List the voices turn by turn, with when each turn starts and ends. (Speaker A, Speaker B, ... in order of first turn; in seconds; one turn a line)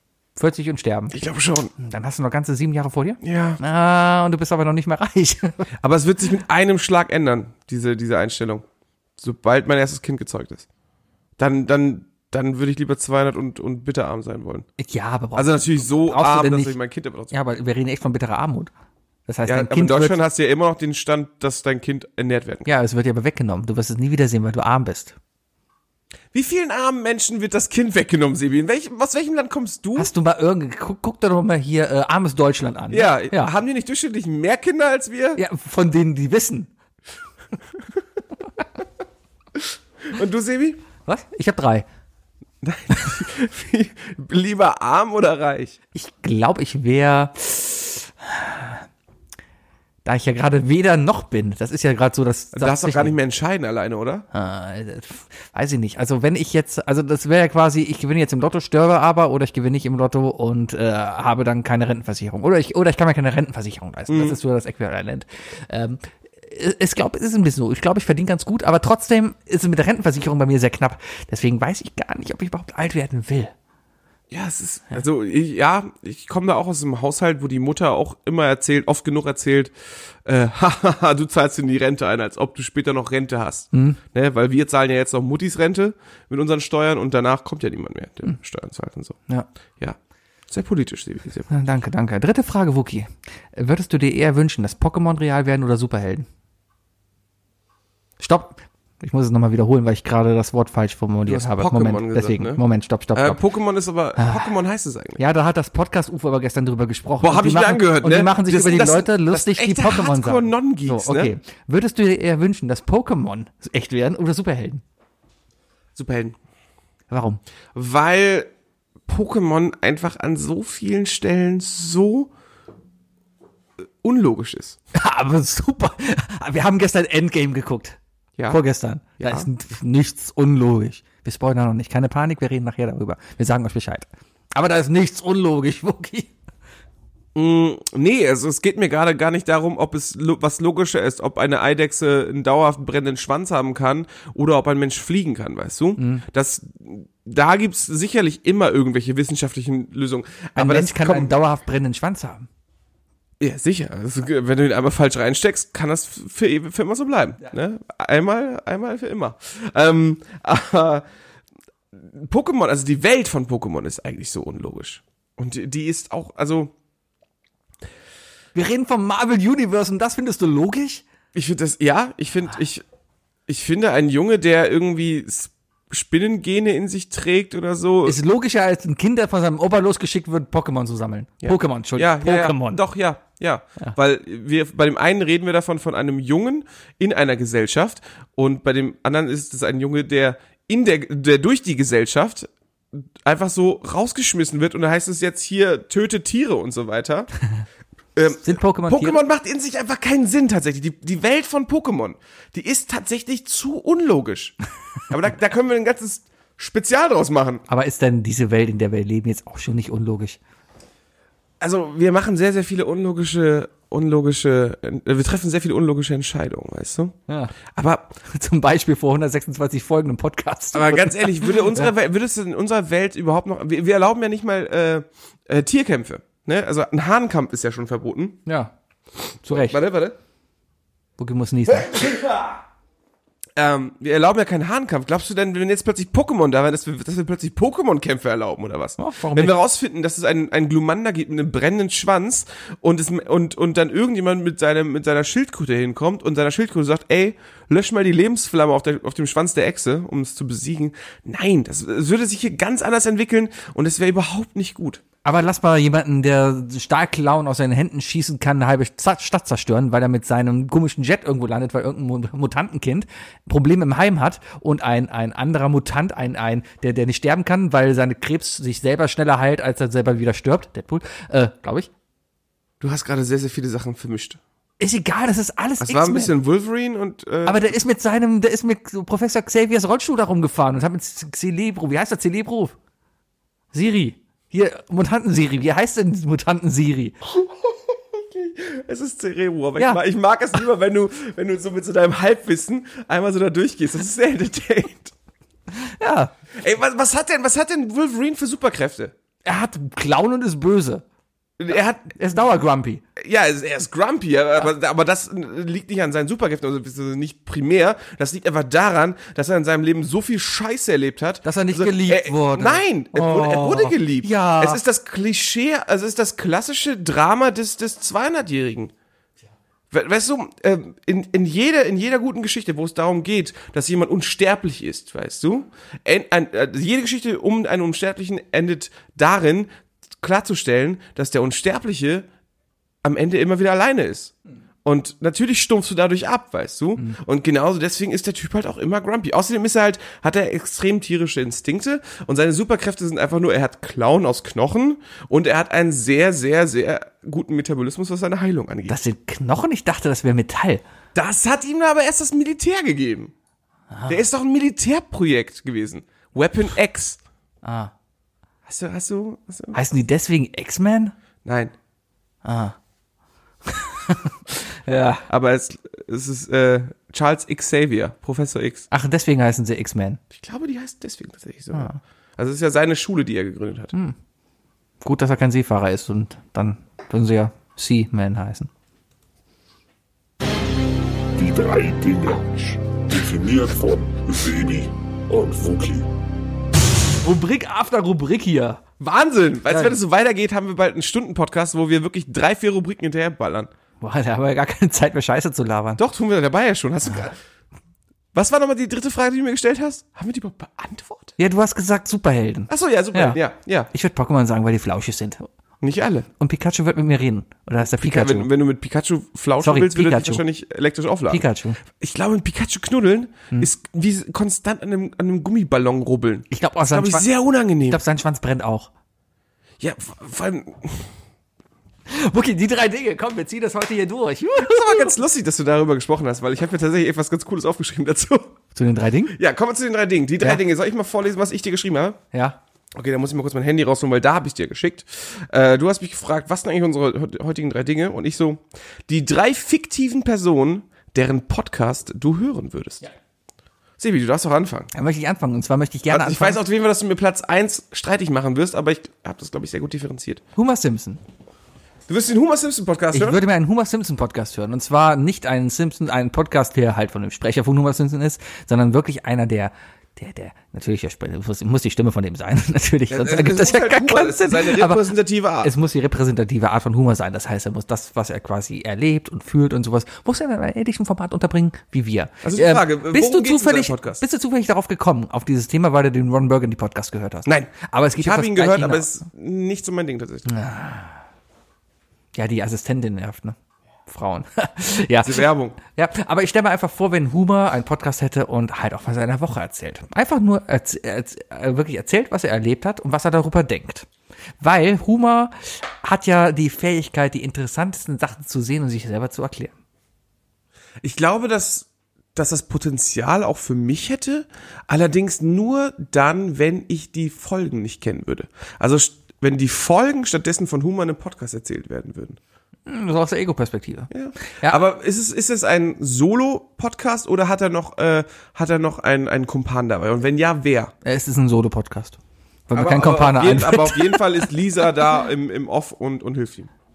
Speaker A: 0.3-1.2
Speaker B: 1.1-1.7
Speaker A: 1.8-5.7
Speaker B: 3.2-3.6
Speaker B: 5.8-8.6
Speaker B: 9.2-10.7
Speaker B: 11.4-14.7
Speaker A: 14.8-16.7
Speaker B: 15.3-17.3
Speaker A: 17.3-18.7
Speaker A: 19.3-20.2
Speaker B: 19.5-22.7
Speaker A: 22.6-25.2
Speaker B: 26.3-30.1
Speaker A: 29.9-33.5
Speaker B: 32.9-35.4
Speaker A: 35.4-36.7
Speaker B: 40.1-40.8
Speaker A: 41.0-41.9
Speaker B: 42.6-45.8
Speaker A: 45.9-48.8
Speaker A: 50.0-53.1
Speaker B: 52.5-54.3
Speaker A: 54.3-73.5
Speaker B: 64.1-64.4
Speaker B: 74.3-79.7
Speaker B: 80.2-89.2
Speaker A: 83.7-84.0
Speaker B: 90.5-91.5
Speaker A: 91.5-96.3
Speaker A: 98.2-103.4
Speaker B: 101.3-102.6
Speaker B: 103.1-105.2
Speaker A: 104.2-104.5
Speaker A: 105.2-114.8
Speaker B: 107.2-111.3
Speaker B: 116.0-116.3
Speaker A: 117.1-117.4
Speaker B: 117.7-118.5
Speaker B: 119.1-122.3
Speaker B: 124.0-124.8
Speaker A: 124.9-128.0
Speaker A: 128.5-136.3
Speaker B: 129.2-129.5
Speaker B: 137.3-151.3
Speaker A: 146.0-146.2
Speaker A: 150.6-152.5
Speaker B: 153.4-161.0
Speaker B: 161.9-166.7
Speaker A: 168.5-171.0
Speaker B: 171.3-172.8
Speaker B: 173.5-178.2
Speaker A: 178.0-182.8
Speaker B: 181.4-197.3
Speaker B: 198.1-204.6
Speaker A: 198.4-199.2
Speaker B: 205.1-207.6
Speaker A: 207.7-210.4
Speaker B: 211.6-217.2
Speaker A: 217.3-217.5
Speaker B: 217.7-218.2
Speaker A: 218.2-221.9
Speaker B: 220.7-228.4
Speaker A: 228.4-228.7
Speaker A: 229.4-229.8
Speaker B: 229.5-230.2
Speaker A: 231.2-232.1
Speaker B: 233.6-255.0
Speaker A: 239.0-239.5
Speaker A: 255.2-271.9
Speaker B: 272.8-274.4
Speaker A: 274.8-276.3
Speaker B: 275.8-277.7
Speaker A: 277.4-282.7
Speaker A: 283.7-287.1
Speaker B: 287.3-295.1
Speaker A: 295.7-296.3
Speaker B: 296.5-299.1
Speaker A: 299.4-301.0
Speaker B: 301.6-302.1
Speaker A: 302.1-303.0
Speaker B: 303.2-318.9
Speaker A: 311.4-314.8
Speaker B: 319.9-332.3
Speaker B: 333.0-334.3
Speaker B: 334.8-349.0
Speaker A: 348.9-350.8
Speaker B: 351.1-353.3
Speaker A: 353.9-354.2
Speaker B: 354.1-357.2
Speaker A: 357.6-357.9
Speaker B: 358.6-359.8
Speaker A: 359.7-361.1
Speaker B: 361.4-361.7
Speaker A: 362.4-362.8
Speaker A: 363.6-365.2
Speaker B: 365.3-368.9
Speaker A: 368.9-370.2
Speaker B: 370.3-373.9
Speaker A: 371.7-372.0
Speaker A: 375.0-378.7
Speaker C: 381.3-386.1
Speaker A: 387.2-388.8
Speaker B: 389.0-393.7
Speaker A: 389.7-390.0
Speaker A: 394.0-396.0
Speaker B: 396.0-397.4
Speaker B: 398.3-401.4
Speaker A: 401.4-403.4
Speaker B: 402.7-403.9
Speaker A: 403.9-405.5
Speaker B: 405.8-406.3
Speaker A: 406.4-408.5
Speaker B: 408.0-418.0
Speaker A: 409.6-410.4
Speaker A: 411.3-411.8
Speaker A: 416.5-417.2
Speaker A: 417.9-418.9
Speaker B: 419.8-421.1
Speaker A: 422.1-425.2
Speaker B: 424.6-428.6
Speaker A: 428.7-429.4
Speaker B: 429.3-432.2
Speaker A: 432.3-432.6
Speaker B: 432.9-443.0
Speaker B: 444.0-444.9
Speaker A: 444.9-446.6
Speaker B: 446.1-450.4
Speaker A: 450.6-451.2
Speaker B: 452.1-453.4
Speaker A: 453.1-465.1
Speaker B: 463.1-465.7
Speaker A: 465.6-479.2
Speaker B: 472.4-474.2
Speaker B: 477.4-480.5
Speaker A: 480.5-481.2
Speaker A: 482.3-494.1
Speaker B: 485.2-485.8
Speaker A: 494.6-499.7
Speaker B: 501.0-512.4
Speaker A: 512.9-514.8
Speaker B: 514.1-520.9
Speaker A: 521.0-522.2
Speaker A: 522.7-524.3
Speaker B: 522.7-526.7